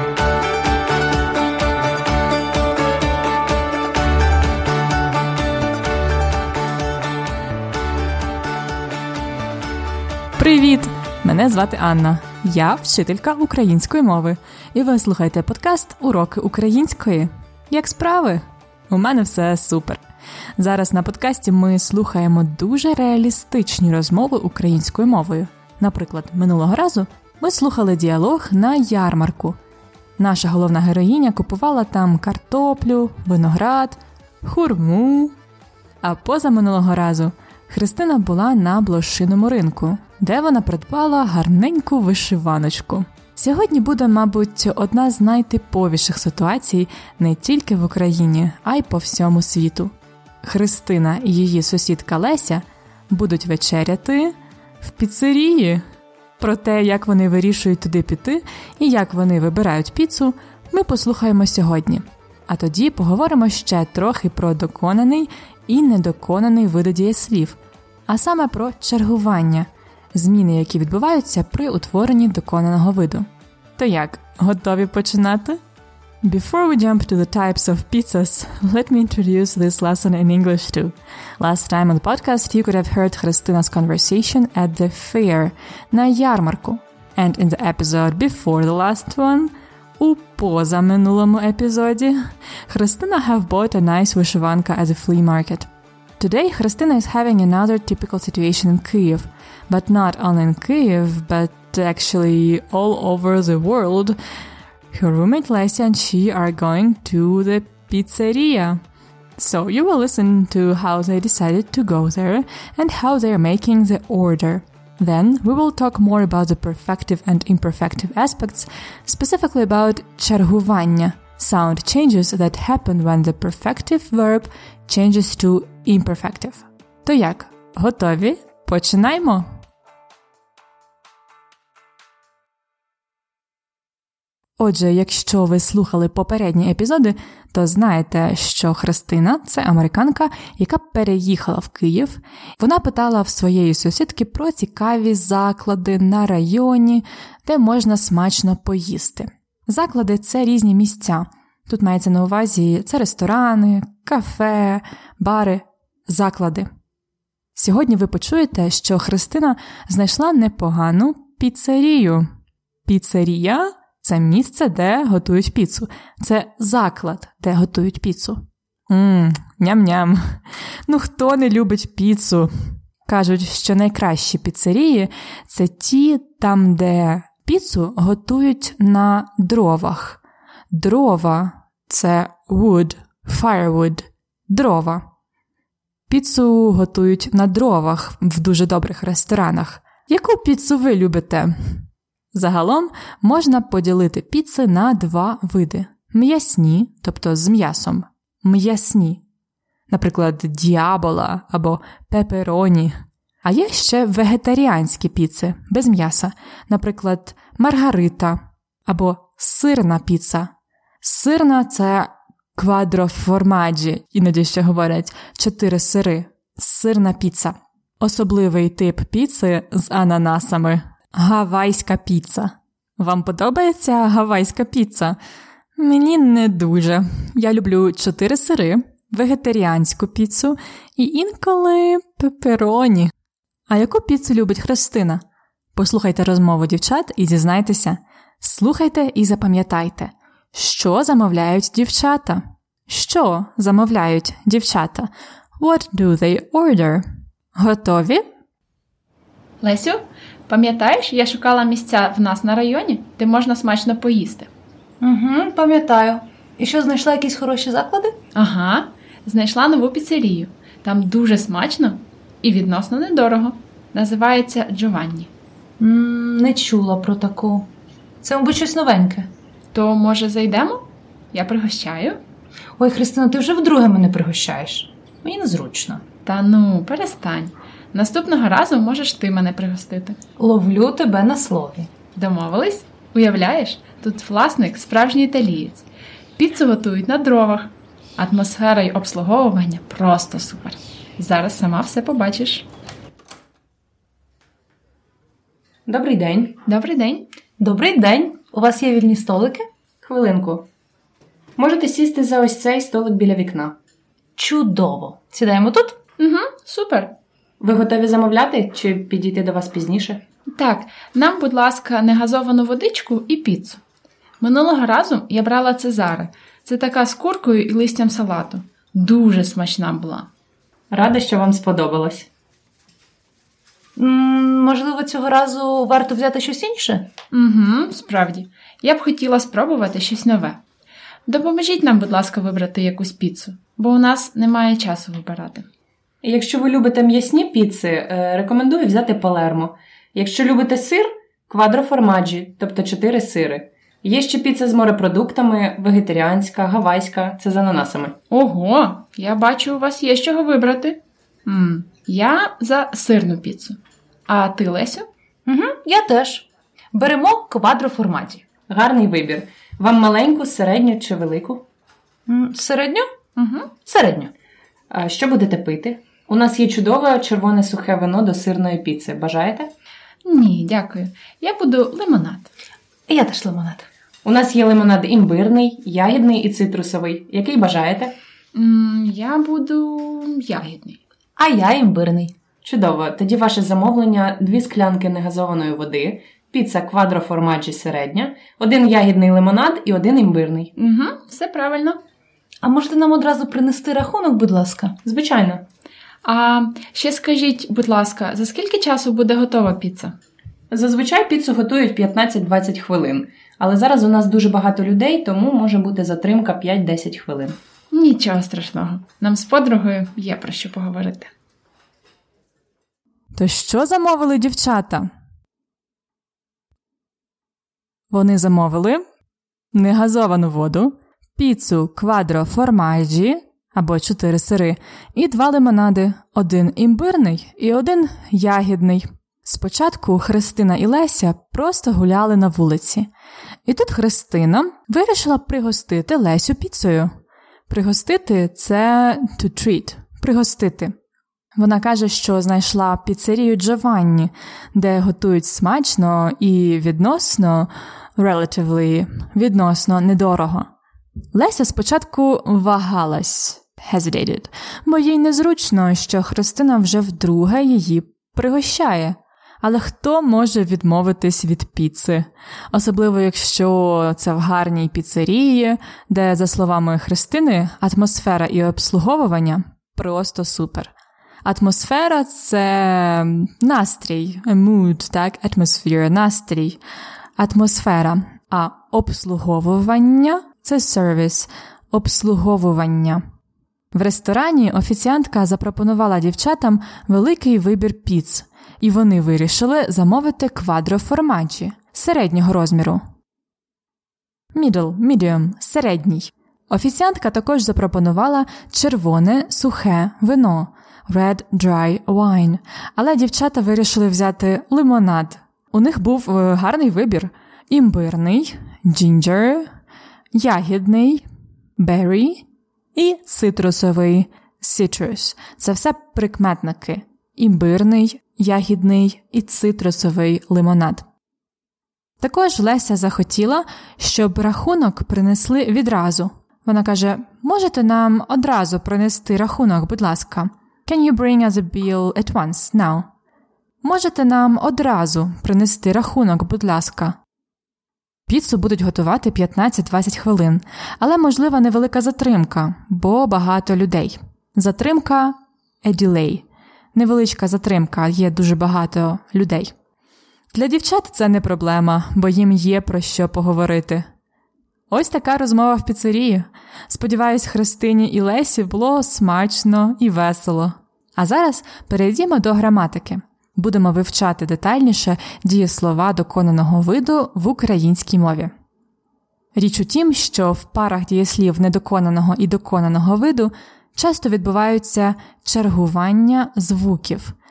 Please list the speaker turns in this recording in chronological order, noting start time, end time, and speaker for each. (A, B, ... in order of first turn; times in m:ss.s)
0:10.4-0:20.0 A
0:20.6-0:29.6 A
0:30.2-0:35.4 A
0:36.0-0:55.8 A
0:56.4-1:15.6 A
1:16.2-1:44.2 A
1:44.9-1:48.8 A
1:49.4-2:09.4 A
2:14.6-2:36.7 A
2:37.6-2:42.3 A
2:42.8-3:00.2 A
3:00.7-3:05.0 A
3:06.1-3:19.2 A
3:19.9-3:45.2 A
3:45.8-3:53.1 A
3:53.7-3:55.2 A
3:55.8-4:07.0 A
4:07.6-4:08.2 A
4:09.6-4:14.5 B
4:15.0-4:18.2 C
4:18.3-4:25.3 B
4:25.8-4:27.7 C
4:28.2-4:29.3 C
4:29.7-4:32.2 B
4:32.8-4:36.0 C
4:36.2-4:40.2 B
4:40.4-4:41.9 C
4:42.1-4:45.8 B
4:46.4-4:52.7 B
4:55.9-4:56.6 D
4:56.6-4:57.3 B
4:57.6-4:59.6 C
5:00.0-5:00.7 D
5:01.6-5:03.8 D
5:04.4-5:06.0 C
5:06.2-5:07.1 B
5:07.6-5:10.2 D
5:10.5-5:13.8 B
5:14.4-5:20.3 B
5:20.9-5:22.3 D
5:24.0-5:27.1 C
5:27.3-5:30.6 B
5:31.3-5:35.7 B
5:36.2-5:48.2 D
5:48.3-5:55.0 B
5:55.4-5:58.4 C
5:58.7-6:01.6 D
6:02.3-6:03.1 C
6:03.4-6:03.7 B
6:03.8-6:04.3 C
6:04.9-6:09.7 D
6:10.2-6:12.5 B
6:13.1-6:13.9 C
6:14.2-6:18.1 D
6:18.5-6:21.0 B
6:21.4-6:22.3 C
6:22.6-6:30.7 D
6:30.8-6:32.0 B
6:32.6-6:35.0 C
6:35.0-6:35.6 D
6:36.2-6:40.1 B
6:40.7-6:47.6 D
6:47.9-6:51.3 B
6:53.3-6:55.1 A
6:58.1-6:59.0 A
6:59.7-7:13.1 A
7:13.6-7:17.1 A
7:17.7-7:20.9 A
7:21.5-7:30.7 A
7:31.3-7:50.9 A
7:51.4-7:56.8 A
7:57.4-8:03.2 A
8:03.9-8:13.0 A
8:14.5-8:29.7 A
8:30.3-8:31.2 A
8:31.8-8:41.0 A
8:42.2-8:53.1 A
8:53.8-8:57.2 A
8:58.3-9:09.7 A
9:10.5-9:14.1 A
9:14.9-9:28.5 A
9:29.5-9:37.3 A